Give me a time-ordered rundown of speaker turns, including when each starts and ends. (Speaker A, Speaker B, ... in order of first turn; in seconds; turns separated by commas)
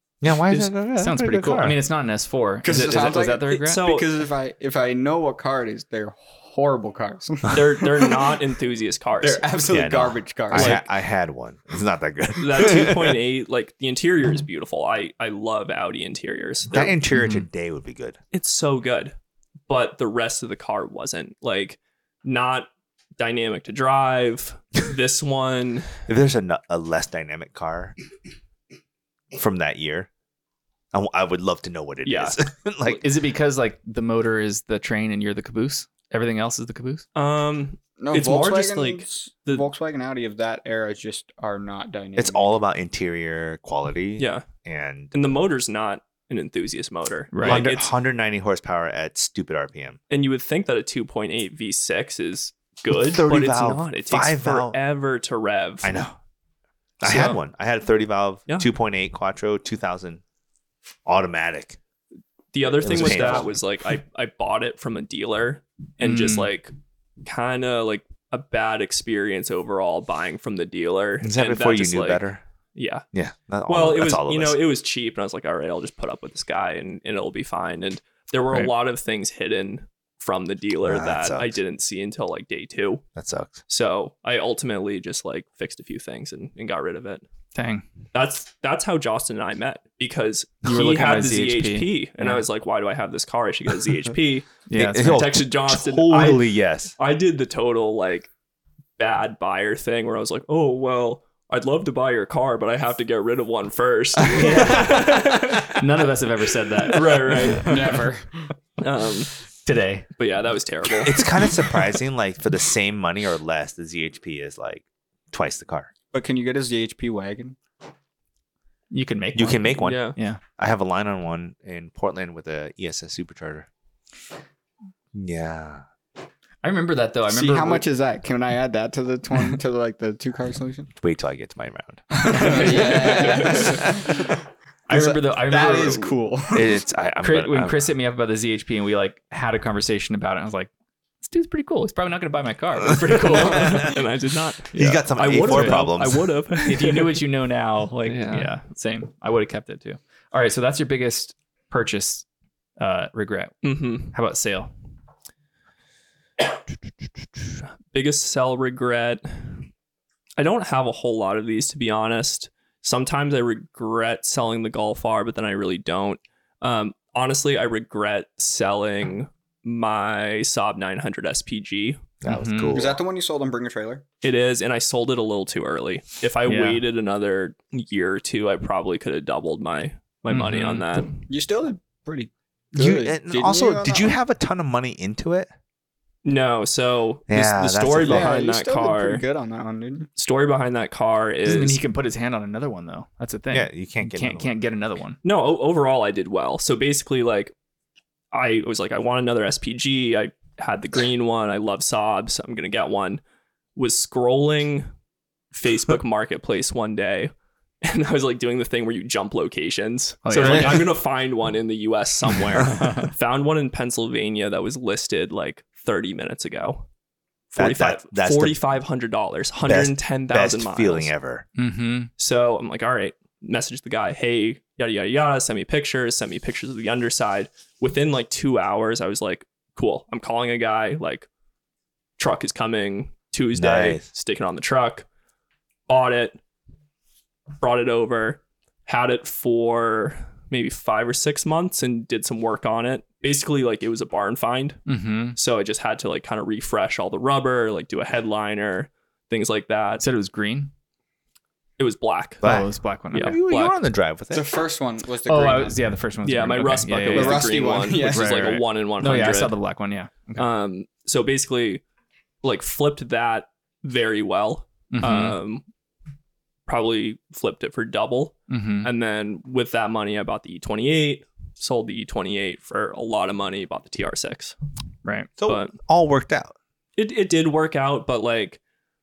Speaker A: 0.2-1.8, Speaker B: 0.5-3.9, Speaker C: 2.6-8.3, Speaker D: 3.6-4.1, Speaker D: 7.5-9.5, Speaker C: 9.2-10.8, Speaker A: 9.7-13.2, Speaker D: 10.5-10.8, Speaker D: 12.4-16.9, Speaker A: 16.7-18.2, Speaker B: 17.1-17.4, Speaker D: 18.3-19.1, Speaker D: 19.7-26.0, Speaker A: 26.1-27.9, Speaker A: 29.3-30.1, Speaker A: 30.9-33.0, Speaker D: 32.0-32.4, Speaker B: 32.9-37.0, Speaker D: 37.1-39.7, Speaker C: 38.0-42.5, Speaker A: 42.1-45.1, Speaker D: 44.2-44.5, Speaker D: 45.1-47.9, Speaker B: 47.3-47.7, Speaker A: 47.4-50.0, Speaker D: 50.1-56.0, Speaker A: 52.9-54.8, Speaker A: 55.8-56.1, Speaker A: 57.0-60.2, Speaker B: 57.0-57.3, Speaker D: 57.1-57.3, Speaker A: 61.0-61.8, Speaker D: 62.5-66.7, Speaker A: 62.8-63.6, Speaker B: 66.0-66.5, Speaker D: 67.2-72.2, Speaker A: 71.2-72.4, Speaker D: 72.7-73.0, Speaker A: 73.1-74.6, Speaker D: 73.7-83.0, Speaker A: 80.8-81.5, Speaker A: 83.2-83.6, Speaker D: 83.7-87.2, Speaker B: 87.5-87.8, Speaker D: 88.1-96.4, Speaker B: 90.6-92.4, Speaker B: 94.7-95.2, Speaker A: 94.7-96.9, Speaker D: 97.0-98.3, Speaker D: 99.0-105.8, Speaker A: 104.2-105.0, Speaker B: 104.4-107.9, Speaker D: 106.8-108.0, Speaker C: 107.6-108.5, Speaker D: 108.8-109.3, Speaker B: 109.6-110.1, Speaker D: 110.2-111.3, Speaker A: 111.0-115.9, Speaker C: 116.1-117.6, Speaker B: 118.9-120.4, Speaker A: 119.3-123.7, Speaker D: 119.8-120.2, Speaker A: 125.1-125.8, Speaker B: 126.6-127.9, Speaker C: 127.3-130.9, Speaker A: 130.9-132.7, Speaker C: 132.2-134.3, Speaker B: 132.3-133.6, Speaker D: 132.8-133.6, Speaker A: 133.5-134.0, Speaker B: 134.9-136.1, Speaker C: 134.9-136.7, Speaker A: 136.5-137.9, Speaker B: 137.2-140.7, Speaker B: 141.2-144.0, Speaker D: 143.1-147.2, Speaker A: 144.7-146.3, Speaker B: 145.3-145.8, Speaker B: 146.7-152.2, Speaker D: 148.1-148.5, Speaker B: 152.8-154.7, Speaker D: 153.6-154.1, Speaker D: 157.9-159.7, Speaker D: 160.4-172.0, Speaker A: 172.2-173.0, Speaker B: 172.2-172.8, Speaker C: 172.7-174.0, Speaker D: 174.2-181.2, Speaker B: 176.4-176.8, Speaker B: 180.3-180.8, Speaker C: 181.3-184.1, Speaker A: 182.7-185.5, Speaker D: 186.2-189.2, Speaker A: 187.3-188.3, Speaker C: 188.0-190.1, Speaker D: 190.2-191.8, Speaker B: 191.4-195.2, Speaker A: 193.5-194.5, Speaker D: 195.2-197.5, Speaker D: 198.3-203.2, Speaker D: 203.8-204.9, Speaker D: 205.5-207.3, Speaker D: 207.8-216.8, Speaker B: 210.2-210.9, Speaker A: 210.4-210.8, Speaker B: 212.7-213.1, Speaker D: 217.5-221.1, Speaker A: 217.6-218.6, Speaker A: 219.6-221.4, Speaker B: 221.6-222.1, Speaker D: 222.2-231.3, Speaker D: 232.2-235.1, Speaker A: 233.5-234.0, Speaker D: 235.9-236.4, Speaker D: 237.6-244.8, Speaker B: 244.9-245.4, Speaker D: 245.3-250.0, Speaker B: 250.0-250.7, Speaker D: 251.8-252.4, Speaker B: 252.4-253.4, Speaker A: 252.4-254.5, Speaker D: 253.1-253.8, Speaker C: 254.3-255.8, Speaker B: 255.2-260.5, Speaker D: 256.2-259.6, Speaker C: 257.1-258.6, Speaker D: 260.4-261.8, Speaker D: 262.4-265.6, Speaker B: 264.9-265.4, Speaker D: 266.7-274.5, Speaker B: 268.5-268.9, Speaker A: 275.4-276.5, Speaker D: 275.4-275.7, Speaker D: 277.0-278.6